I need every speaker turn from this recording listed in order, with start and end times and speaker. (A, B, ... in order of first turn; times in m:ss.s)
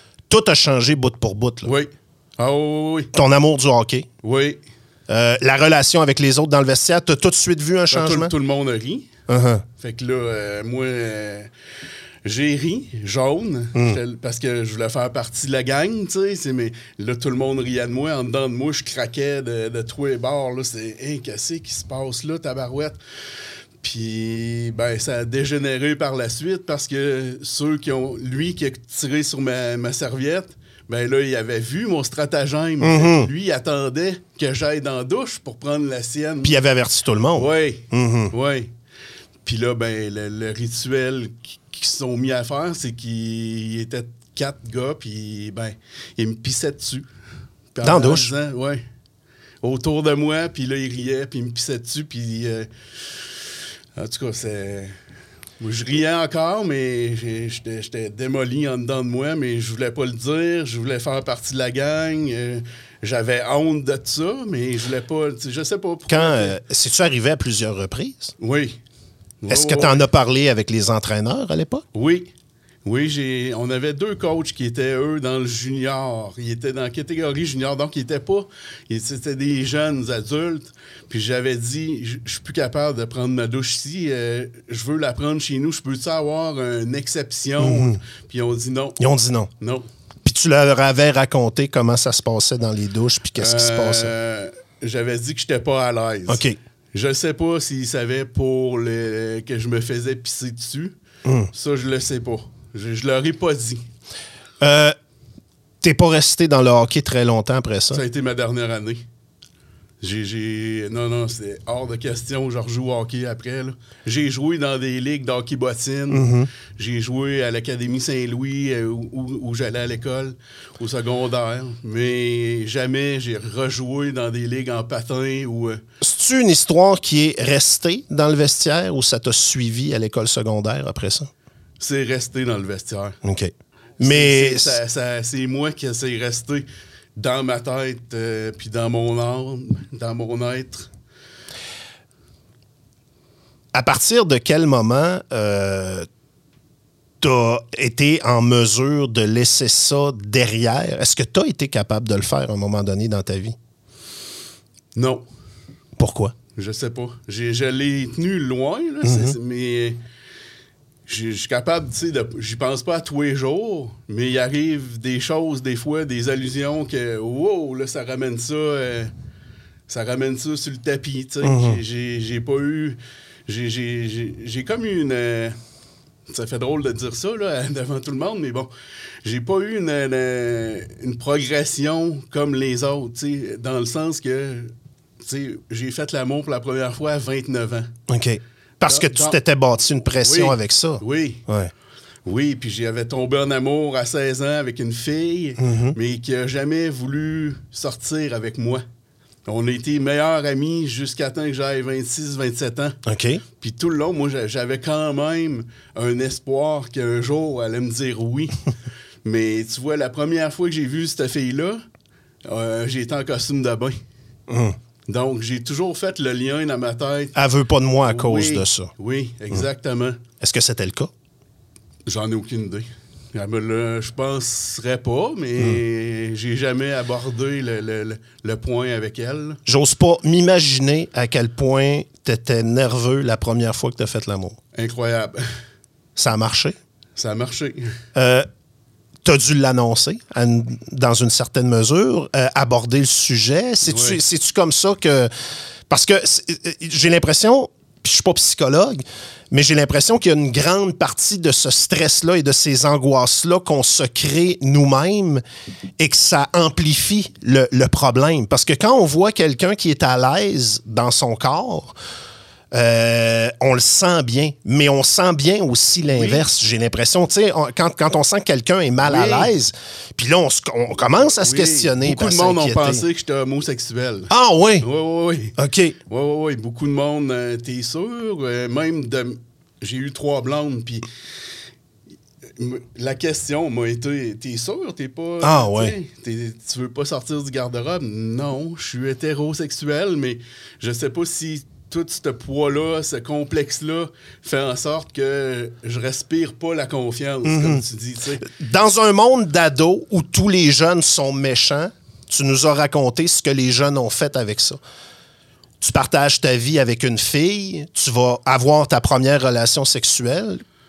0:00.3-0:01.7 A
0:01.6-0:03.1 B
0:03.1-0:04.1 A
0:04.2-0:04.6 B
0:05.1-0:08.3 A
0:07.9-0:09.1 B
0:09.3-0:09.6 A
0:09.8-0:11.5 B
0:12.2-0:23.0 B
0:23.8-0:36.6 B
0:32.8-0:33.3 A
0:36.4-0:38.3 A
0:37.3-0:38.7 B
0:39.4-0:47.1 B
0:47.7-0:48.8 B
0:47.8-0:48.3 A
0:49.6-0:52.7 B
0:54.0-0:55.0 B
0:55.6-1:06.5 B
1:06.1-1:08.3 A
1:08.4-1:08.8 B
1:09.4-1:10.0 B
1:09.5-1:11.8 A
1:11.9-1:12.3 B
1:12.8-1:29.0 B
1:27.6-1:28.0 A
1:29.0-1:29.5 A
1:29.6-1:29.8 B
1:30.2-1:34.1 A
1:33.4-1:36.4 B
1:36.3-1:36.6 A
1:36.9-1:40.9 B
1:41.2-1:41.5 A
1:41.5-1:43.8 B
1:44.6-1:44.9 A
1:45.8-1:48.0 A
1:47.9-1:49.0 B
1:50.0-2:05.8 B
1:56.1-1:56.5 A
2:06.0-2:11.3 A
2:11.8-2:13.2 B
2:13.2-2:14.8 A
2:14.0-2:20.9 B
2:23.7-2:26.1 A
2:27.2-2:33.5 A
2:35.0-2:35.2 B
2:36.0-2:36.3 A
2:36.5-2:40.0 B
2:39.0-2:39.3 A
2:41.1-2:49.1 B
2:49.9-2:55.6 B
2:51.4-2:51.8 A
2:56.3-2:58.7 B
2:59.2-3:07.9 B
3:08.1-3:11.7 A
3:08.8-3:09.4 B
3:10.2-3:11.4 B
3:12.2-3:18.8 B
3:15.6-3:15.9 A
3:19.4-3:23.0 B
3:23.0-3:23.4 A
3:23.6-3:28.6 B
3:29.2-3:31.8 B
3:32.4-3:34.0 B
3:34.5-3:34.8 A
3:35.1-3:37.3 B
3:37.3-3:38.9 A
3:38.0-3:40.2 B
3:40.4-3:41.1 A
3:42.0-3:49.6 B
3:49.6-3:54.6 A
3:54.8-3:55.5 B
3:56.2-3:56.8 A
3:57.2-3:57.9 B
3:58.1-3:58.5 A
3:59.2-4:05.3 A
4:03.8-4:04.2 B
4:05.9-4:15.4 A
4:16.0-4:21.9 A
4:22.7-4:33.0 A
4:26.1-4:26.4 B
4:29.0-4:29.5 B
4:31.3-4:35.6 B
4:34.3-4:34.8 A
4:35.6-4:36.0 A
4:36.1-4:41.0 B
4:42.6-4:58.4 B
4:45.4-4:45.9 A
4:57.4-4:57.8 A
4:58.4-5:04.8 A
5:05.8-5:10.6 A